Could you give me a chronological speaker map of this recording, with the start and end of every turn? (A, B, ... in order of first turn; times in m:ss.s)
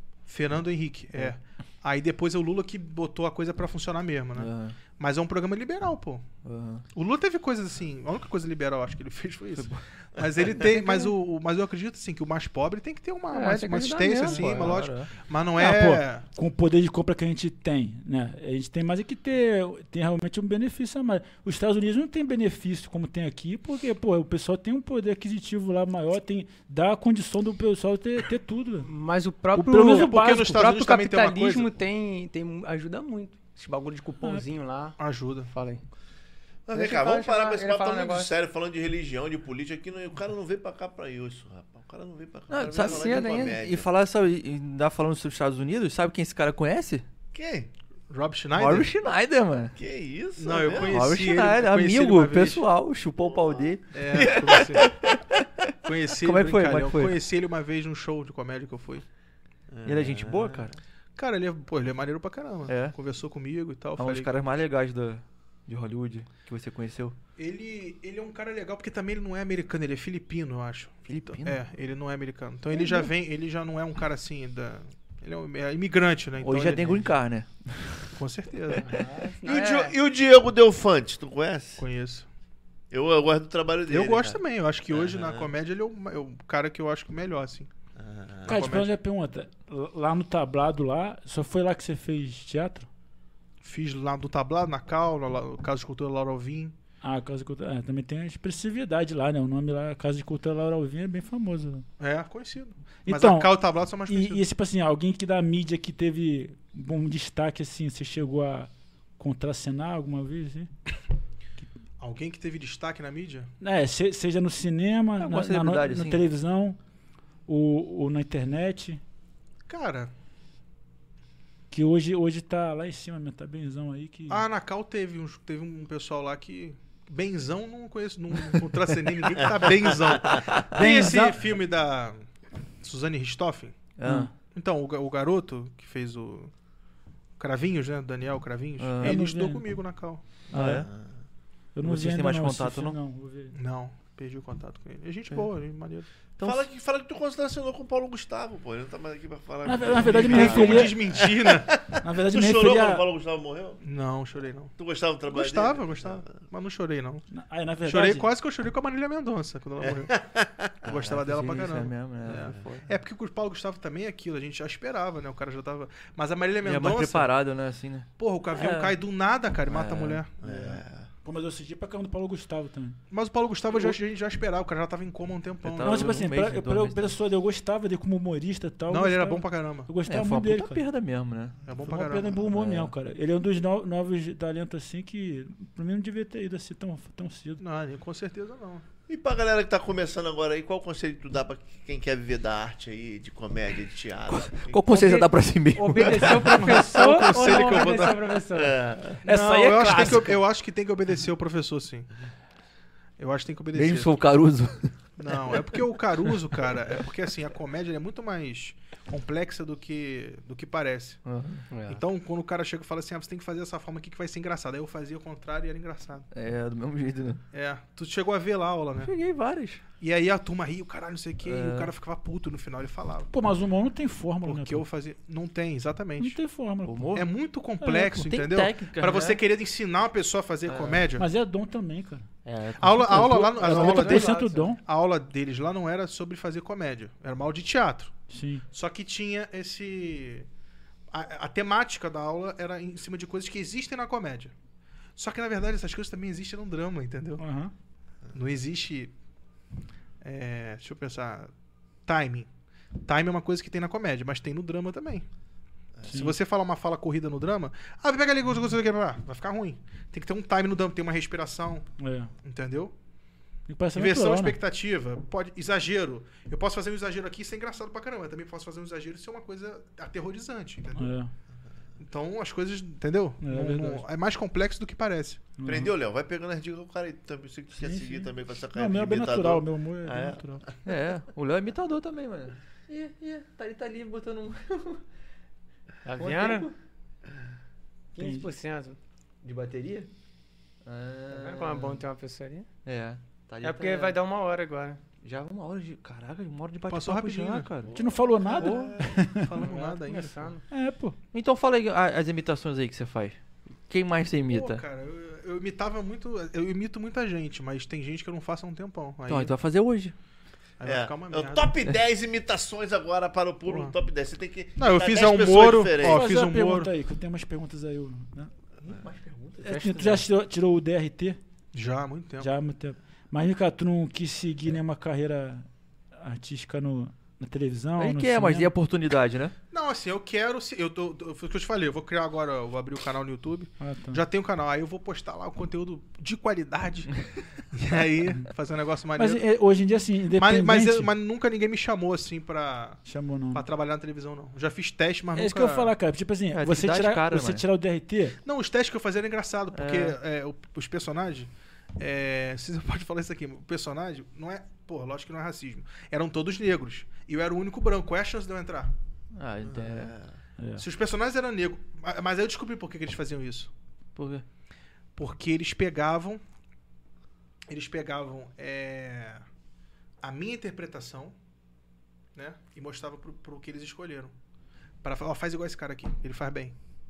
0:00.3-0:06.2 A
0:04.4-0:04.8 B
0:06.4-0:06.8 B
0:06.9-0:16.2 A
0:09.6-0:09.8 B
0:10.8-0:11.1 C
0:13.3-0:14.8 C
0:14.2-0:15.1 B
0:15.6-0:28.9 D
0:28.8-0:35.8 C
0:29.5-0:30.6 D
0:29.9-0:31.7 A
0:35.0-0:35.5 A
0:36.7-0:43.9 E
0:36.7-0:38.3 C
0:42.5-0:47.1 B
0:42.7-0:43.6 C
0:47.3-0:47.7 E
0:48.1-0:48.9 A
0:48.6-0:49.8 B
0:49.8-0:51.2 E
0:50.4-0:52.6 A
0:50.8-0:57.2 B
0:53.4-0:54.4 E
0:53.9-0:54.9 A
0:55.8-0:59.0 A
0:59.7-1:00.7 E
0:59.8-1:00.8 B
1:01.2-1:04.3 A
1:02.7-1:03.0 B
1:04.0-1:07.2 B
1:07.4-1:17.1 A
1:11.1-1:11.6 B
1:16.4-1:18.2 B
1:18.2-1:19.0 A
1:18.8-1:20.0 C
1:19.4-1:21.8 E
1:21.8-1:22.3 A
1:22.9-1:25.5 E
1:23.9-1:27.7 A
1:28.0-1:28.6 E
1:28.4-1:32.9 D
1:28.5-1:28.9 A
1:33.6-1:36.8 A
1:37.0-1:41.8 D
1:42.0-1:44.4 A
1:43.1-1:43.5 D
1:44.1-1:50.7 D
1:52.0-1:53.5 A
1:53.6-1:56.8 D
1:55.2-1:56.2 B
1:57.5-1:59.0 D
1:59.7-2:00.1 A
2:01.7-2:04.5 D
2:04.3-2:12.2 A
2:10.1-2:10.4 E
2:10.5-2:11.1 B
2:10.7-2:11.4 D
2:12.8-2:13.8 A
2:14.0-2:14.3 B
2:14.0-2:14.3 D
2:14.5-2:16.5 A
2:17.4-2:20.2 A
2:18.8-2:19.2 B
2:19.0-2:19.7 D
2:20.5-2:20.9 B
2:20.5-2:20.9 D
2:21.8-2:23.6 D
2:21.8-2:23.0 B
2:23.5-2:26.1 A
2:26.4-2:26.7 B
2:26.4-2:33.8 E
2:29.6-2:31.1 D
2:30.0-2:31.8 A
2:32.0-2:33.0 D
2:33.8-2:34.7 A
2:34.8-2:36.5 E
2:35.3-2:37.3 A
2:37.3-2:38.3 D
2:37.8-2:40.2 A
2:39.8-2:41.1 E
2:40.8-2:47.3 A
2:41.1-2:42.9 B
2:46.6-2:49.0 B
2:48.2-2:50.8 A
2:49.7-2:50.2 B
2:50.4-2:51.1 E
2:51.2-2:53.0 D
2:53.1-2:56.3 A
2:55.6-2:57.2 B
2:55.8-3:00.8 D
2:58.9-2:59.9 A
3:00.0-3:01.6 B
3:01.7-3:02.4 A
3:01.8-3:07.6 D
3:02.5-3:02.9 B
3:07.6-3:08.8 A
3:09.1-3:14.8 E
3:14.3-3:16.8 B
3:14.9-3:18.8 C
3:16.4-3:18.2 A
3:18.5-3:19.2 E
3:19.2-3:20.4 D
3:19.2-3:22.1 A
3:23.2-3:24.2 A
3:23.7-3:24.9 B
3:25.2-3:31.2 A
3:31.2-3:31.8 B
3:31.7-3:32.0 C
3:31.9-3:36.3 A
3:36.3-3:37.4 B
3:37.5-3:39.1 A
3:39.0-3:39.8 B
3:40.0-3:43.3 A
3:41.4-3:41.9 B
3:43.3-3:44.9 D
3:44.4-3:46.4 A
3:46.2-3:47.2 D
3:46.9-3:47.3 B
3:47.1-3:51.3 A
3:47.8-3:48.2 D
3:48.0-3:49.4 B
3:50.7-3:51.1 B
3:51.2-3:52.3 D
3:52.4-3:53.9 B
3:52.8-4:00.5 A
3:53.1-3:54.8 D
3:53.6-3:54.7 C
3:58.3-3:58.6 D
4:01.1-4:04.5 A
4:05.2-4:07.4 A
4:07.4-4:07.7 D
4:08.3-4:09.1 A
4:10.2-4:11.5 A
4:12.1-4:12.5 A
4:13.0-4:15.2 A
4:16.1-4:16.4 D
4:16.1-4:21.9 A
4:22.0-4:22.3 D
4:22.4-4:22.9 A
4:23.7-4:24.6 D
4:24.0-4:31.1 A
4:31.0-4:31.3 D
4:32.0-4:35.5 A
4:33.4-4:34.0 D
4:35.6-4:35.9 D
4:35.6-4:40.6 E
4:37.8-4:40.6 D
4:40.8-4:45.0 B
4:46.0-4:46.7 C
4:46.2-4:46.8 B
4:48.2-4:49.0 C
4:48.2-4:48.5 D
4:49.4-4:50.1 B
4:50.8-4:52.0 B
4:51.3-4:52.7 C
4:52.8-4:54.2 B
4:53.6-4:55.0 C
4:55.2-4:57.9 B
4:56.9-4:57.7 A
4:57.9-4:59.5 D
4:58.6-4:58.9 C
4:58.6-5:00.5 A
4:59.6-5:00.6 C
5:00.7-5:01.2 D
5:01.3-5:04.8 B
5:04.5-5:09.5 A
5:09.3-5:10.1 B
5:10.8-5:11.7 A
5:10.8-5:16.3 E
5:13.7-5:13.9 A
5:14.8-5:16.9 A
5:16.0-5:18.5 D
5:18.8-5:20.2 B
5:19.6-5:21.4 D
5:19.7-5:20.2 C
5:21.7-5:22.5 A
5:22.4-5:28.7 D
5:28.0-5:29.5 B
5:29.7-5:39.4 A
5:33.8-5:34.2 D
5:39.2-5:41.1 D
5:40.4-5:45.9 A
5:43.1-5:43.6 D
5:45.4-5:48.4 D
5:46.5-5:47.6 B
5:48.4-5:58.9 A
5:49.7-5:50.2 B
5:59.3-6:00.2 B
5:59.7-6:00.3 E
6:00.8-6:03.7 A
6:04.2-6:04.4 B
6:05.2-6:06.4 A
6:07.7-6:09.4 A
6:10.2-6:11.4 A
6:12.4-6:14.3 A
6:15.0-6:16.8 A